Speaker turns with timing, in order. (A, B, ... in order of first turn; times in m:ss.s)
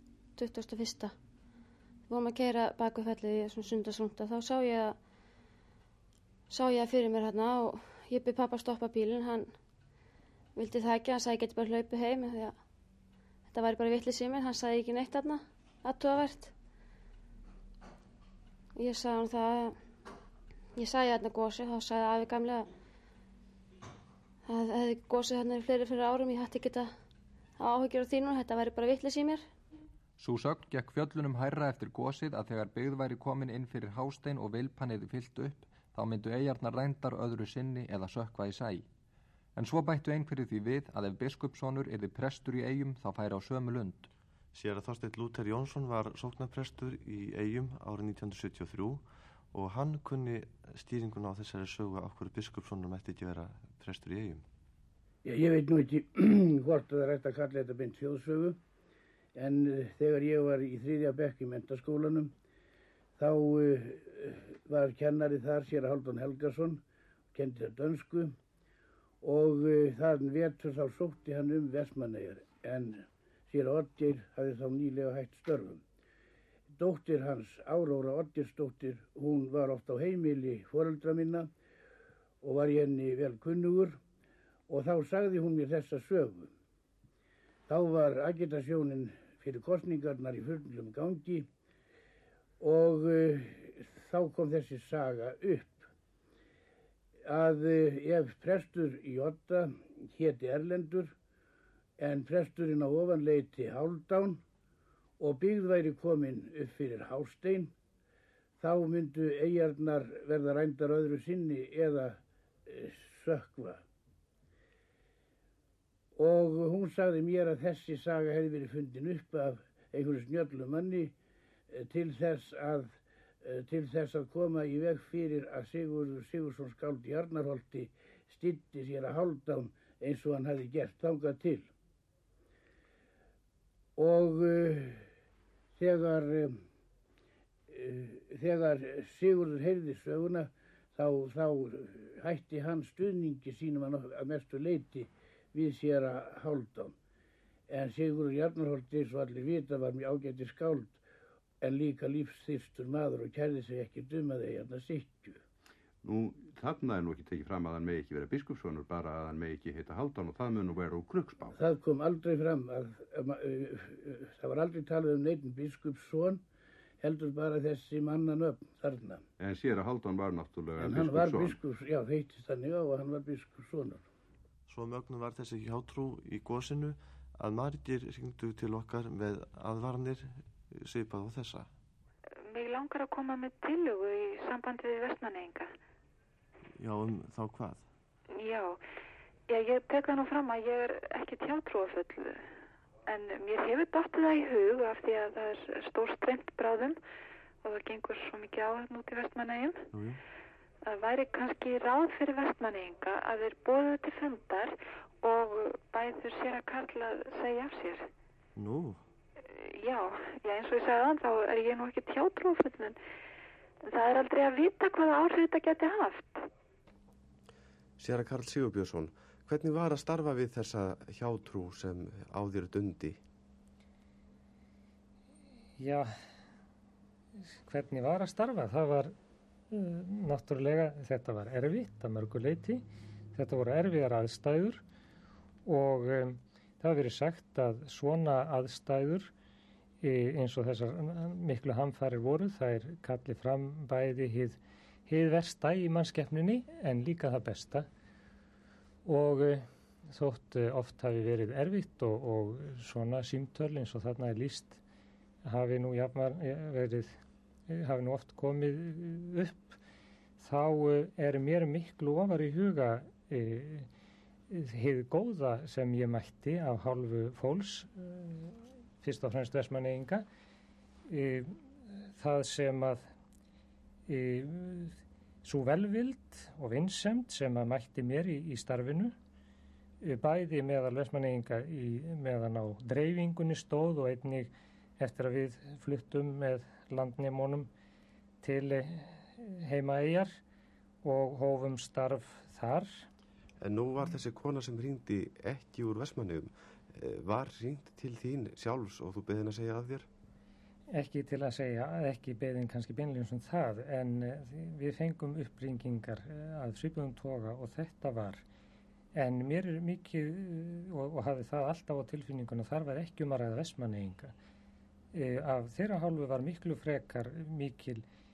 0:00.4-0:01.1 A
0:02.1-0:05.0 A
0:06.5-0:09.5 A
0:10.6-0:12.5 A
0:13.5-0:16.5 A
0:18.8-0:19.8 A
0:20.8-0:22.7 A
0:24.5-0:26.9 A
0:27.6-0:29.5 A
0:30.2-0:38.8 B
0:39.6-0:44.1 B
0:44.5-0:54.4 C
0:55.2-0:58.6 D
0:59.4-1:02.3 D
1:03.2-1:06.8 D
1:07.3-1:08.3 D
1:09.2-1:15.8 D
1:16.7-1:21.5 D
1:22.4-1:24.0 D
1:24.7-1:26.5 D
1:27.7-1:31.5 D
1:32.6-1:35.9 D
1:37.2-1:41.1 D
1:42.0-1:44.4 D
1:45.2-1:47.7 D
1:48.6-1:53.8 D
1:56.2-2:01.1 D
2:01.7-2:11.7 D
2:14.0-2:15.1 D
2:15.8-2:16.6 D
2:17.7-2:26.9 D
2:27.7-2:31.0 D
2:31.6-2:35.4 D
2:36.0-2:41.6 E
2:41.5-2:46.4 D
2:47.0-2:49.2 D
2:49.4-2:51.6 E
2:50.8-2:54.0 D
2:54.7-3:01.7 C
3:02.5-3:05.7 F
3:06.8-3:07.8 C
3:08.3-3:08.8 F
3:09.5-3:12.5 F
3:13.1-3:17.0 F
3:17.6-3:19.8 F
3:19.9-3:20.2 C
3:20.8-3:28.1 F
3:28.6-3:29.0 C
3:29.4-3:33.0 F
3:33.8-3:36.4 F
3:38.0-3:43.2 G
3:45.8-3:46.1 H
3:47.5-3:49.1 H
3:49.7-3:54.8 H
3:55.6-3:59.3 H
4:00.0-4:07.9 H
4:09.0-4:14.8 H
4:15.4-4:19.8 H
4:20.4-4:23.9 H
4:24.5-4:30.2 H
4:31.1-4:33.1 H
4:34.1-4:39.2 H
4:40.0-4:47.7 H
4:48.4-4:50.4 H
4:51.0-4:53.1 H
4:53.6-5:00.1 G
5:00.9-5:08.4 H
5:09.1-5:14.3 H
5:15.1-5:18.0 H